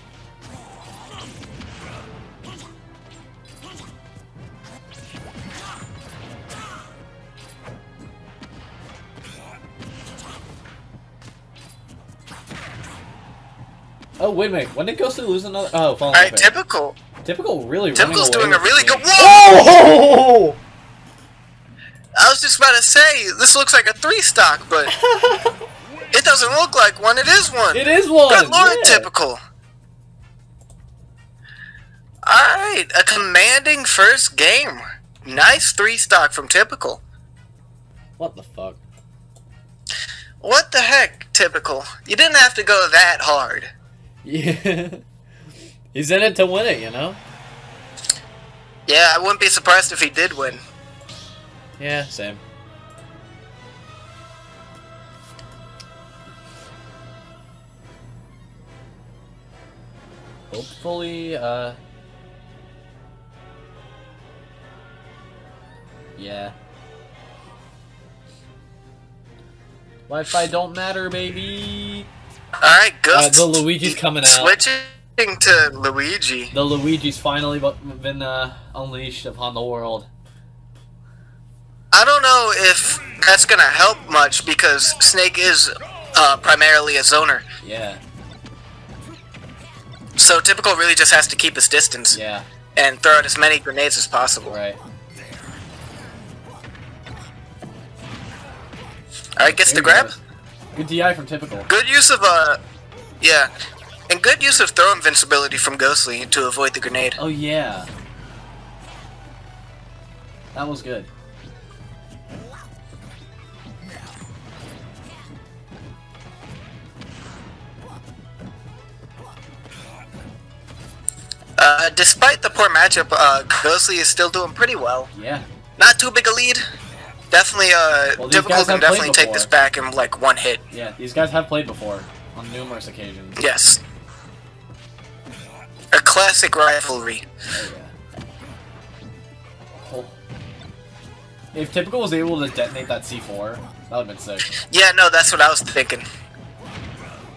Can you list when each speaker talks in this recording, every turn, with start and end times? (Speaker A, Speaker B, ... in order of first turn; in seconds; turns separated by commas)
Speaker A: 14.2-16.5, Speaker B: 16.1-17.0, Speaker A: 17.2-20.6, Speaker B: 17.9-19.5, Speaker B: 22.2-24.9, Speaker A: 24.9-25.6, Speaker B: 26.1-29.4, Speaker A: 27.7-29.1, Speaker B: 32.3-37.0, Speaker A: 38.2-38.8, Speaker B: 40.4-43.7, Speaker A: 44.2-45.0, Speaker A: 45.9-47.2, Speaker B: 48.9-50.6, Speaker A: 51.8-52.4, Speaker A: 60.5-61.8, Speaker A: 66.2-66.5, Speaker A: 70.1-72.1, Speaker B: 72.6-76.5, Speaker A: 73.1-74.6, Speaker A: 76.5-80.1, Speaker B: 81.9-87.4, Speaker A: 87.6-88.0, Speaker B: 90.2-92.2, Speaker A: 92.1-92.5, Speaker B: 92.8-94.6, Speaker A: 94.5-94.8, Speaker B: 99.4-100.2, Speaker A: 99.4-100.2, Speaker A: 100.7-101.7, Speaker B: 101.7-102.6, Speaker B: 103.2-103.5, Speaker B: 104.1-107.2, Speaker A: 107.2-107.9, Speaker A: 110.5-111.1, Speaker B: 121.6-125.1, Speaker A: 125.1-125.9, Speaker B: 125.8-126.6, Speaker B: 127.3-130.6, Speaker A: 128.2-129.5, Speaker A: 130.7-133.4, Speaker B: 133.4-133.8, Speaker B: 135.9-137.2, Speaker A: 137.5-137.9, Speaker A: 139.7-140.1, Speaker A: 141.5-144.5, Speaker B: 144.7-146.1